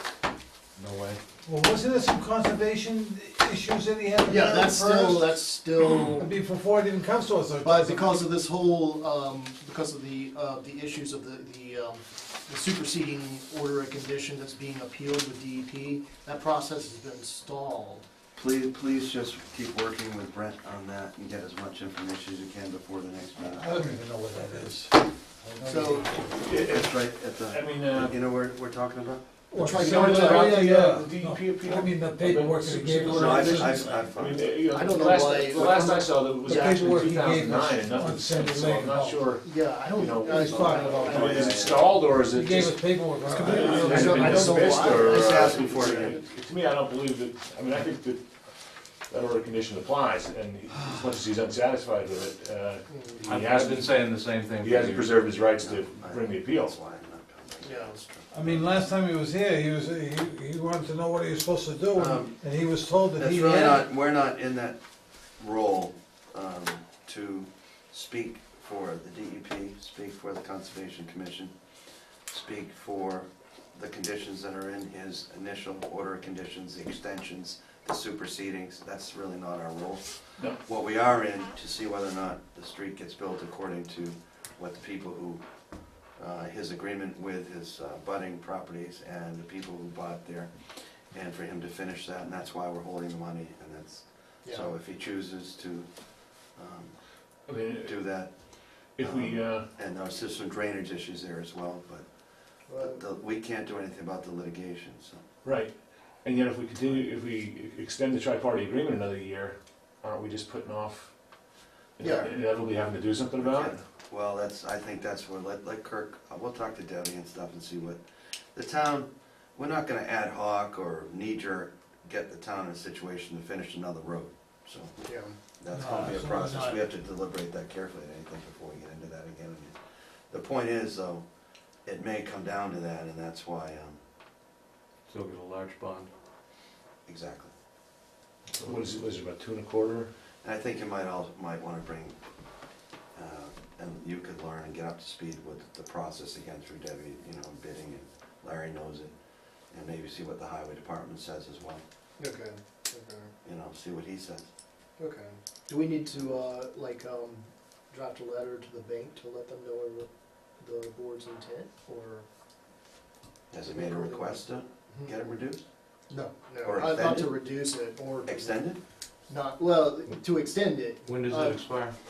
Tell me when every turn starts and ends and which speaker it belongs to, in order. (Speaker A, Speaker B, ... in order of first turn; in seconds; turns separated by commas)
Speaker A: 0.8-1.2, Speaker B: 1.4-5.3, Speaker C: 4.2-6.3, Speaker B: 6.2-8.2, Speaker C: 7.6-18.0, Speaker D: 18.4-23.8, Speaker B: 23.5-26.4, Speaker C: 25.6-26.2, Speaker E: 26.4-28.2, Speaker D: 26.4-29.2, Speaker C: 29.5-30.9, Speaker B: 29.5-34.1, Speaker E: 29.7-48.2, Speaker C: 32.9-33.8, Speaker D: 33.2-34.4, Speaker C: 34.7-36.9, Speaker B: 36.4-41.1, Speaker C: 39.4-41.7, Speaker D: 40.5-42.1, Speaker B: 42.3-44.5, Speaker C: 43.2-46.2, Speaker D: 45.1-46.2, Speaker E: 49.1-54.0, Speaker C: 52.9-53.3, Speaker A: 53.2-55.1, Speaker E: 54.6-56.8, Speaker D: 55.6-58.8, Speaker C: 57.6-58.0, Speaker B: 58.3-63.8, Speaker D: 61.9-62.4, Speaker D: 63.2-64.8, Speaker D: 65.4-71.5, Speaker D: 72.3-85.4, Speaker D: 86.2-95.9, Speaker C: 94.4-94.7, Speaker D: 96.5-96.9, Speaker E: 97.5-98.0, Speaker D: 97.8-98.3, Speaker E: 99.0-99.7, Speaker D: 99.0-102.0, Speaker C: 102.7-103.0, Speaker D: 102.8-105.2, Speaker E: 105.4-111.1, Speaker E: 112.0-113.8, Speaker C: 112.0-112.3, Speaker D: 113.4-118.0, Speaker D: 118.5-124.9, Speaker C: 125.0-125.4, Speaker D: 125.6-129.7, Speaker B: 125.7-126.8, Speaker C: 126.4-126.7, Speaker D: 130.3-131.2, Speaker D: 131.8-134.0, Speaker A: 135.1-136.1, Speaker D: 137.1-137.5, Speaker E: 138.5-140.1, Speaker D: 140.4-142.2, Speaker D: 143.1-149.1, Speaker D: 149.7-151.8, Speaker C: 152.2-153.3, Speaker D: 153.4-154.5, Speaker C: 155.0-162.2, Speaker D: 163.5-165.6, Speaker C: 163.7-164.3, Speaker C: 166.1-168.6, Speaker D: 166.6-167.3, Speaker D: 168.2-168.8, Speaker C: 169.3-171.6, Speaker A: 171.1-171.9